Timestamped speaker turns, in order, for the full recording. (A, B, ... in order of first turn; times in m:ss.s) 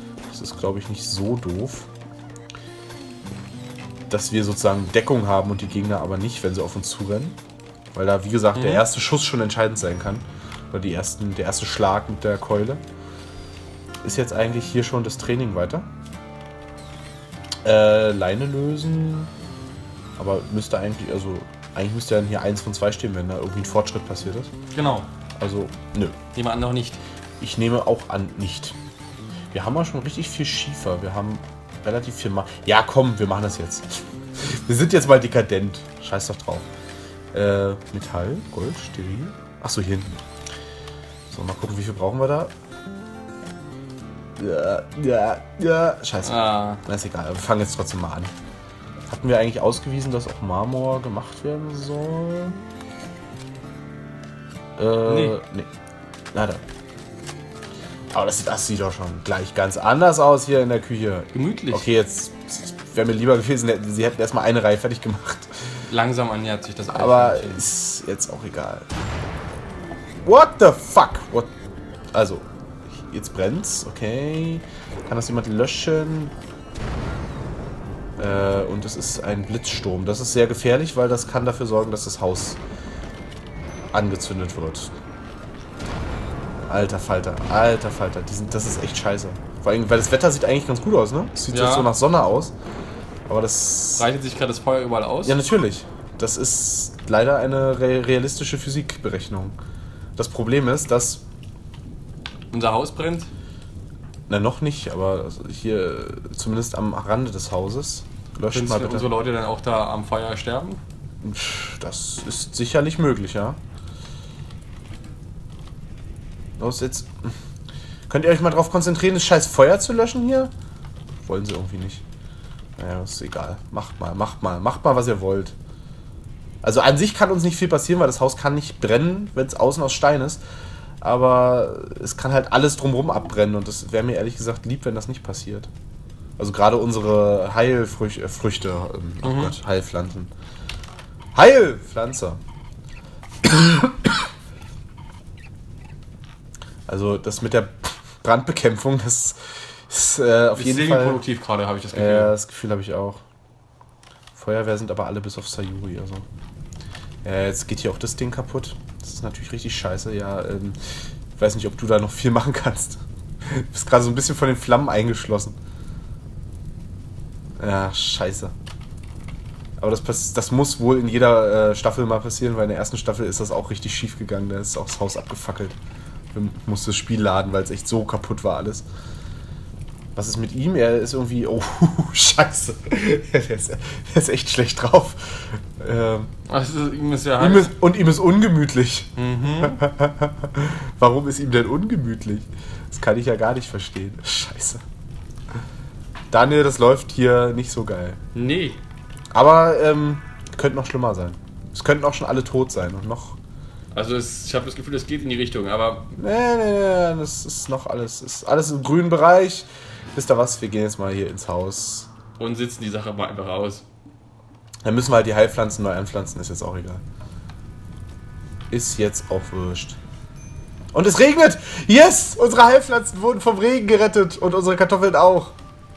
0:00.3-0:01.9 A
0:04.1-0:07.4 A
0:07.9-0:12.8 A
0:08.5-0:08.8 B
0:14.0-0:15.8 A
0:17.6-0:19.3 A
0:20.2-0:24.5 A
0:24.7-0:25.1 B
0:25.4-0:26.2 A
0:26.3-0:27.0 B
0:27.4-0:28.8 A
0:29.5-0:36.7 A
0:37.3-0:40.2 A
0:41.3-0:42.5 A
0:44.4-0:48.3 A
0:46.2-0:46.8 B
0:49.1-0:52.6 A
0:54.8-0:55.7 A
0:55.0-0:55.4 B
0:56.3-0:56.6 A
0:58.1-1:05.8 A
1:01.3-1:01.9 B
1:05.8-1:07.6 B
1:06.9-1:08.9 A
1:10.2-1:11.5 A
1:12.1-1:12.4 A
1:13.0-1:16.3 A
1:18.2-1:22.6 A
1:23.9-1:24.9 A
1:26.7-1:32.5 A
1:31.5-1:31.9 B
1:33.2-1:34.0 A
1:34.0-1:35.4 B
1:35.2-1:39.6 A
1:40.2-1:41.2 A
1:42.5-1:43.3 B
1:44.3-1:49.1 A
1:48.5-1:50.8 B
1:51.2-1:53.6 A
1:56.6-1:57.4 A
1:58.1-2:00.5 A
2:01.2-2:02.0 A
2:02.8-2:05.6 A
2:06.6-2:10.4 A
2:11.0-2:15.7 A
2:16.4-2:20.3 A
2:19.2-2:19.5 B
2:21.3-2:22.4 A
2:23.4-2:23.9 A
2:26.9-2:31.2 A
2:30.6-2:32.3 B
2:31.9-2:33.2 A
2:34.3-2:36.2 A
2:37.2-2:40.8 A
2:41.4-2:45.6 A
2:47.6-2:48.5 A
2:49.8-2:55.8 A
2:56.3-2:58.8 A
3:00.2-3:06.3 A
3:06.5-3:07.8 B
3:07.4-3:14.8 A
3:09.2-3:09.8 B
3:16.3-3:18.2 A
3:18.3-3:18.8 B
3:19.3-3:23.4 A
3:23.9-3:26.1 B
3:26.2-3:32.1 A
3:32.4-3:33.8 B
3:34.8-3:37.0 A
3:38.7-3:40.0 A
3:40.9-3:45.5 A